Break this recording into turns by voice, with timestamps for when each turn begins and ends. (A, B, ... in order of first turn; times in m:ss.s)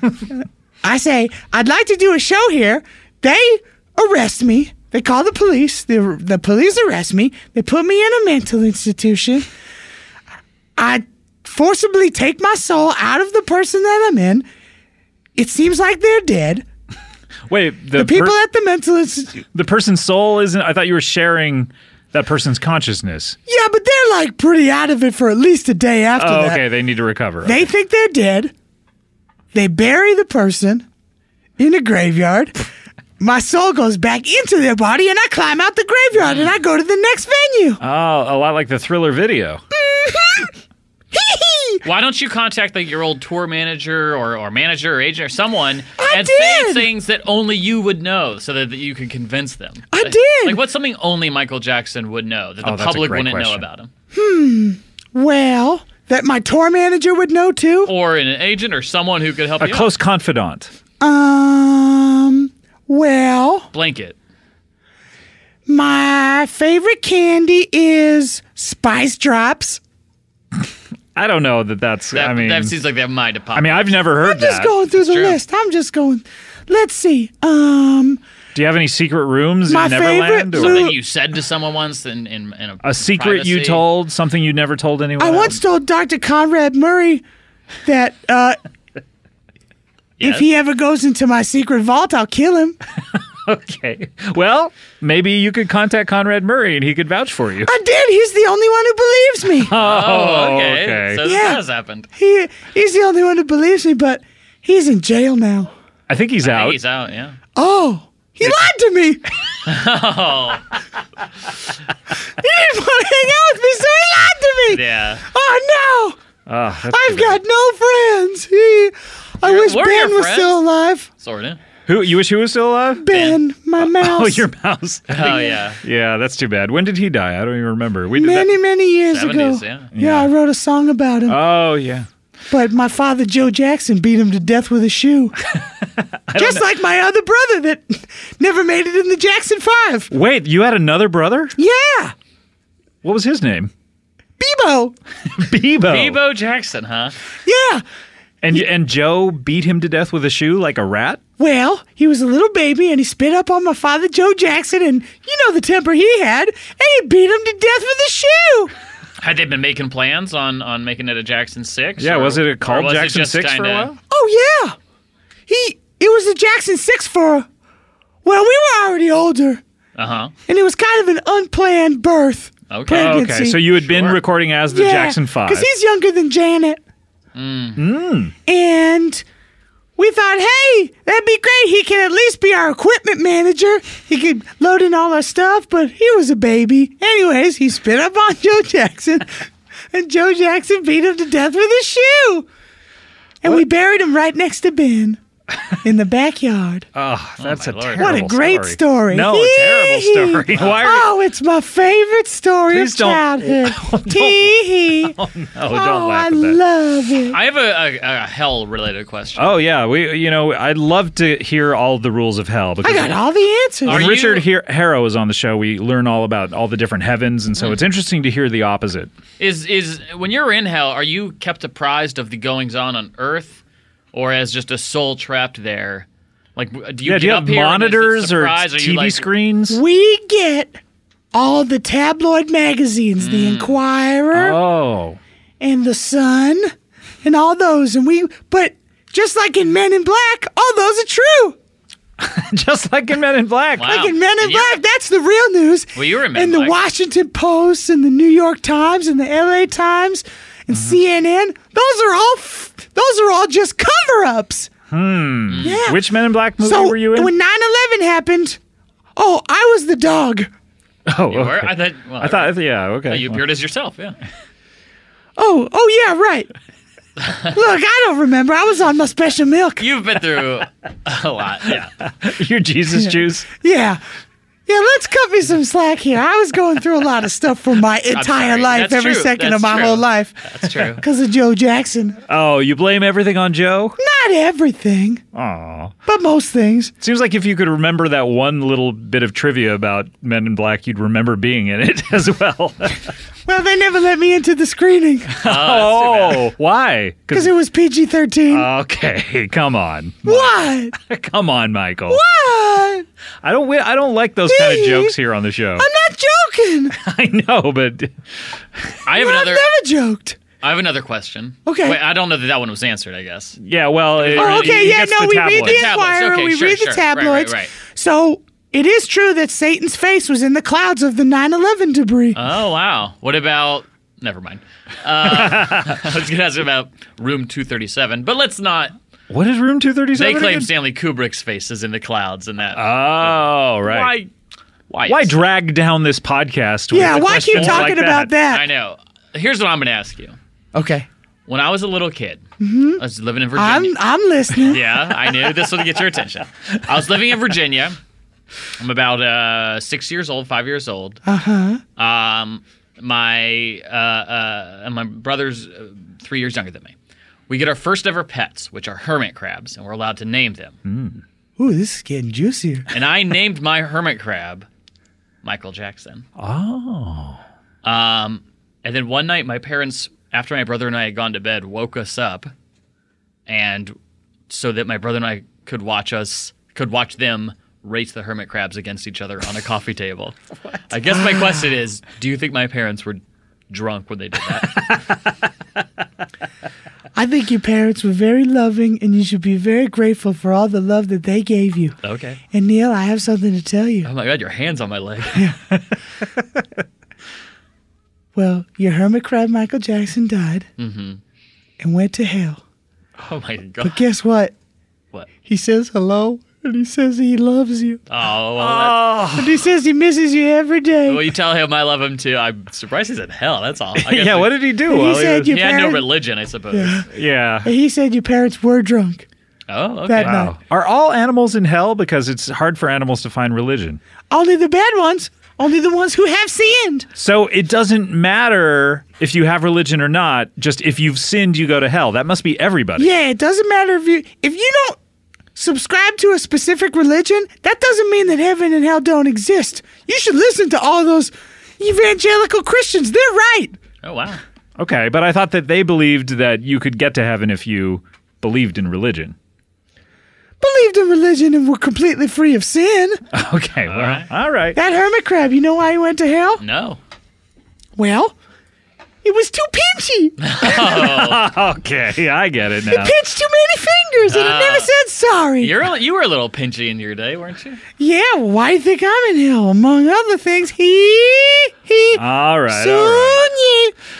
0:00.8-0:09.5 A
0:10.8-0:14.4 A
0:15.4-0:16.6 A
0:17.5-0:18.4 B
0:17.9-0:19.4 A
0:19.5-0:23.4 B
0:23.5-0:26.6 A
0:26.2-0:27.7 B
0:27.4-0:28.5 A
0:29.5-0:30.9 A
0:31.6-0:32.6 A
0:33.2-0:37.8 A
0:36.2-0:36.5 C
0:37.8-0:39.6 B
0:39.8-0:40.5 A
0:41.1-0:41.8 A
0:41.8-0:53.9 C
0:46.0-0:46.9 A
0:49.9-0:50.6 A
0:52.6-0:53.6 B
0:54.1-0:57.9 A
0:57.8-0:59.9 C
0:59.6-1:00.7 B
1:01.0-1:03.7 A
1:03.7-1:04.2 C
1:05.7-1:09.8 A
1:11.2-1:12.7 B
1:12.1-1:14.0 C
1:13.6-1:14.8 B
1:14.2-1:18.2 A
1:14.9-1:15.4 C
1:18.6-1:20.9 B
1:19.7-1:21.0 A
1:20.5-1:23.8 C
1:22.8-1:25.6 B
1:25.2-1:27.2 A
1:27.8-1:28.6 A
1:30.2-1:30.5 C
1:30.2-1:32.8 A
1:33.1-1:37.7 B
1:37.7-1:39.7 A
1:39.6-1:41.2 B
1:39.7-1:42.1 C
1:41.2-1:45.7 A
1:46.1-1:46.8 B
1:46.4-1:47.4 C
1:47.6-1:49.3 A
1:49.6-1:50.8 C
1:52.3-1:56.2 A
1:54.7-1:55.2 C
1:56.5-1:57.4 B
1:56.9-2:01.1 A
1:59.4-2:00.6 C
2:01.2-2:01.6 C
2:01.8-2:03.1 B
2:03.0-2:04.4 A
2:03.1-2:03.4 C
2:03.8-2:08.5 B
2:05.1-2:05.8 C
2:08.2-2:11.4 A
2:09.1-2:09.9 C
2:09.9-2:10.3 B
2:11.3-2:12.1 B
2:12.5-2:15.4 A
2:15.5-2:16.6 B
2:16.3-2:20.1 A
2:20.1-2:21.6 B
2:21.6-2:22.1 A
2:23.0-2:23.7 B
2:24.4-2:24.9 A
2:25.4-2:26.2 B
2:25.8-2:27.2 C
2:27.4-2:27.8 A
2:28.4-2:31.2 B
2:31.4-2:38.7 A
2:39.2-2:43.9 C
2:42.0-2:44.0 B
2:44.1-2:44.7 A
2:45.5-2:47.4 A
2:48.2-2:49.6 A
2:50.0-2:50.3 C
2:50.5-2:53.7 A
2:52.7-2:53.2 C
2:52.9-2:55.7 B
2:53.7-2:54.2 C
2:54.7-2:56.8 A
2:57.3-2:57.8 C
2:57.8-2:58.3 B
2:58.4-2:59.2 A
3:00.0-3:12.5 A
3:13.4-3:15.2 A
3:15.8-3:16.9 A
3:16.9-3:21.1 B
3:17.4-3:18.2 C
3:18.0-3:27.4 A
3:20.5-3:20.9 C
3:22.7-3:26.6 B
3:27.3-3:29.6 C
3:29.4-3:33.2 B
3:32.8-3:34.1 A
3:33.8-3:39.1 B
3:33.8-3:34.5 C
3:39.4-3:43.6 C
3:44.1-3:49.3 C
3:47.0-3:49.8 B
3:49.7-3:50.8 A
3:51.3-3:54.6 A
3:53.2-3:53.8 C
3:54.3-3:55.2 B
3:55.6-3:56.7 A
3:57.2-4:01.6 A
4:02.2-4:03.9 B
4:03.8-4:04.8 C
4:03.8-4:14.7 A
4:05.9-4:06.8 C
4:10.7-4:11.0 B
4:14.9-4:17.3 B
4:15.5-4:15.8 C
4:15.6-4:16.0 A
4:16.6-4:18.6 A
4:19.2-4:20.5 A
4:21.1-4:23.4 B
4:21.3-4:24.2 C
4:25.4-4:26.5 A
4:27.5-4:29.8 A
4:29.8-4:31.9 C
4:31.8-4:33.5 B
4:32.9-4:34.0 A
4:34.7-4:40.4 A
4:38.1-4:41.0 C
4:41.0-4:42.2 A
4:42.3-4:44.0 B
4:44.0-4:45.2 A
4:45.3-4:45.9 B
4:46.1-4:46.9 A
4:47.0-4:53.0 B
4:53.4-4:55.4 A
4:55.3-4:57.6 B
4:55.4-4:56.5 C
4:57.3-4:58.7 A
4:58.5-5:02.2 B
5:00.2-5:00.9 A
5:02.1-5:03.1 A
5:03.4-5:05.9 B
5:04.5-5:05.2 A
5:05.8-5:06.9 A
5:06.9-5:09.0 B
5:09.1-5:09.7 C
5:09.1-5:10.4 A
5:10.6-5:13.6 C
5:11.7-5:12.0 A
5:13.6-5:15.8 B
5:14.2-5:15.0 C
5:14.3-5:22.4 A
5:15.5-5:17.8 C
5:22.4-5:28.9 C
5:25.3-5:25.8 B
5:29.3-5:30.7 B
5:30.2-5:34.3 C
5:32.7-5:34.1 B
5:34.9-5:35.4 C
5:35.1-5:38.3 B
5:36.9-5:38.7 A
5:37.5-5:38.0 C
5:38.5-5:40.4 C
5:40.7-5:41.1 A
5:41.5-5:42.4 C
5:42.6-5:43.0 A
5:43.0-5:43.9 C
5:43.5-5:44.8 A
5:44.5-5:48.0 C
5:48.8-5:51.2 C
5:51.2-5:51.8 A
5:52.0-5:56.9 C
5:57.5-6:00.8 C
6:00.8-6:01.2 B
6:01.6-6:02.9 A
6:02.9-6:04.7 C
6:05.4-6:06.3 C
6:06.4-6:07.4 B
6:07.8-6:12.5 C
6:13.5-6:13.9 C
6:14.5-6:20.3 C
6:20.9-6:25.0 C
6:27.1-6:32.0 A
6:32.0-6:32.4 C
6:32.5-6:34.1 A
6:34.0-6:35.4 C
6:38.3-6:40.7 A
6:40.8-6:41.2 C
6:41.8-6:42.6 A
6:43.3-6:44.0 C
6:43.8-6:44.5 A
6:45.4-6:48.0 A
6:48.1-6:49.2 C
6:48.6-6:49.6 B
6:49.3-6:51.3 A
6:51.1-6:54.7 C
6:54.0-6:55.6 B
6:54.9-6:56.1 A
6:55.5-6:57.1 C
6:56.7-6:57.0 A
6:57.1-6:57.7 B
6:57.6-6:59.2 A
6:59.7-7:00.4 C
7:00.1-7:00.6 A
7:00.2-7:04.0 B
7:04.3-7:07.1 A
7:07.2-7:13.1 B
7:13.0-7:15.0 A
7:15.6-7:23.8 A
7:24.0-7:24.4 C
7:24.8-7:29.4 B
7:30.6-7:33.2 A
7:33.3-7:34.8 B
7:33.9-7:34.3 C
7:34.7-7:36.6 A
7:36.6-7:37.0 C
7:38.0-7:38.3 A
7:39.2-7:40.4 A
7:40.4-7:41.4 C
7:40.6-7:43.2 B
7:42.9-7:45.7 A
7:44.3-7:44.9 C
7:45.6-7:47.8 C
7:48.0-7:53.9 A
7:52.2-7:53.5 B